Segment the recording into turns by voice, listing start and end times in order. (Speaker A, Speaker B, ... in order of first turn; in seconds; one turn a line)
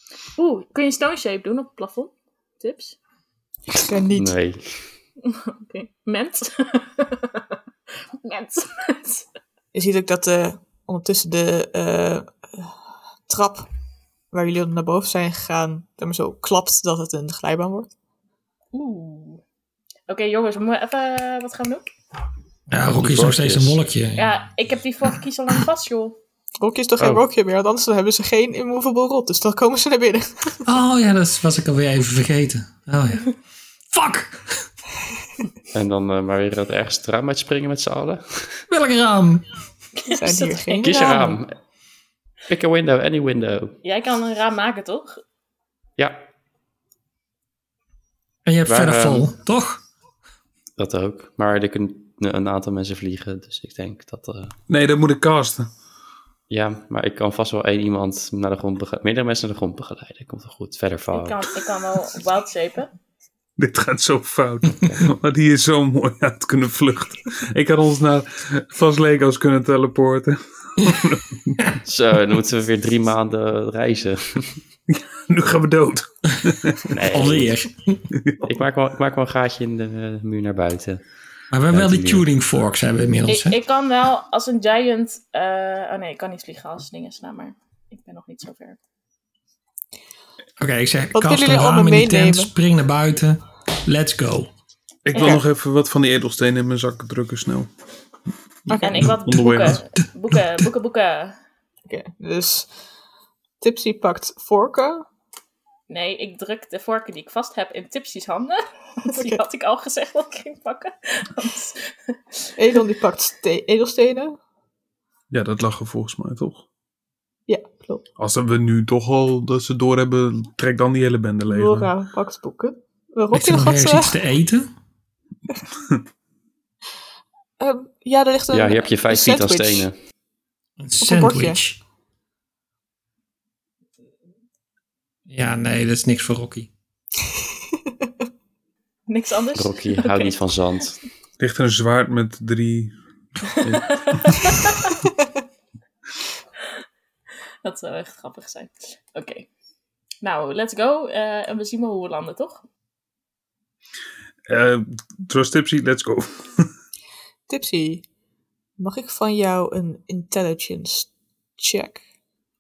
Speaker A: 0.4-3.0
Speaker B: 3.7-4.3
Speaker C: 4.1-4.9
Speaker A: 5.2-7.6
Speaker A: 8.2-9.3
Speaker B: 9.7-12.8
Speaker B: 13.3-13.7
Speaker B: 14.3-17.9
Speaker A: 18.7-19.4
Speaker A: 20.1-21.9
Speaker D: 22.7-24.3
Speaker C: 22.9-23.8
Speaker A: 24.2-26.2
Speaker B: 26.6-30.6
Speaker C: 27.0-27.2
Speaker D: 30.6-33.4
Speaker D: 33.9-34.7
Speaker C: 35.7-38.6
Speaker D: 38.7-39.5
Speaker A: 40.0-41.1
Speaker B: 40.1-41.4
Speaker C: 40.8-41.5
Speaker C: 42.5-43.8
Speaker A: 43.8-45.2
Speaker C: 46.0-46.3
Speaker D: 48.5-49.8
Speaker C: 48.7-49.3
Speaker C: 50.8-54.5
Speaker E: 54.7-55.7
Speaker C: 56.5-61.5
Speaker A: 61.1-62.9
Speaker E: 63.6-71.6
Speaker C: 71.8-74.6
Speaker E: 74.9-77.0
Speaker C: 76.9-77.5
Speaker D: 77.1-78.0
Speaker E: 78.2-78.5
Speaker C: 78.4-81.0
Speaker D: 81.5-83.6
Speaker C: 81.7-82.2
Speaker A: 83.3-88.8
Speaker D: 90.6-94.5
Speaker B: 91.1-92.5
Speaker E: 95.1-97.7
Speaker A: 95.1-95.4
Speaker B: 98.7-99.1
Speaker E: 98.7-99.8
Speaker A: 98.8-101.4
Speaker D: 100.0-100.6
Speaker B: 101.9-102.7
Speaker B: 103.6-105.1
Speaker A: 105.9-112.5
Speaker B: 109.2-109.4
Speaker B: 112.6-114.4
Speaker E: 115.3-116.7
Speaker B: 117.5-118.0
Speaker E: 118.2-121.9
Speaker B: 121.5-124.1
Speaker D: 123.3-124.7
Speaker B: 127.6-129.9
Speaker C: 128.5-129.9
Speaker D: 130.8-131.8
Speaker B: 131.0-131.6
Speaker D: 135.3-136.7
Speaker A: 139.1-140.5
Speaker C: 139.6-141.0
Speaker E: 141.4-142.9
Speaker E: 143.5-144.6
Speaker A: 143.7-144.9
Speaker A: 147.6-149.5
Speaker A: 150.2-152.6
Speaker E: 154.5-156.7
Speaker B: 157.5-158.1
Speaker B: 158.8-162.0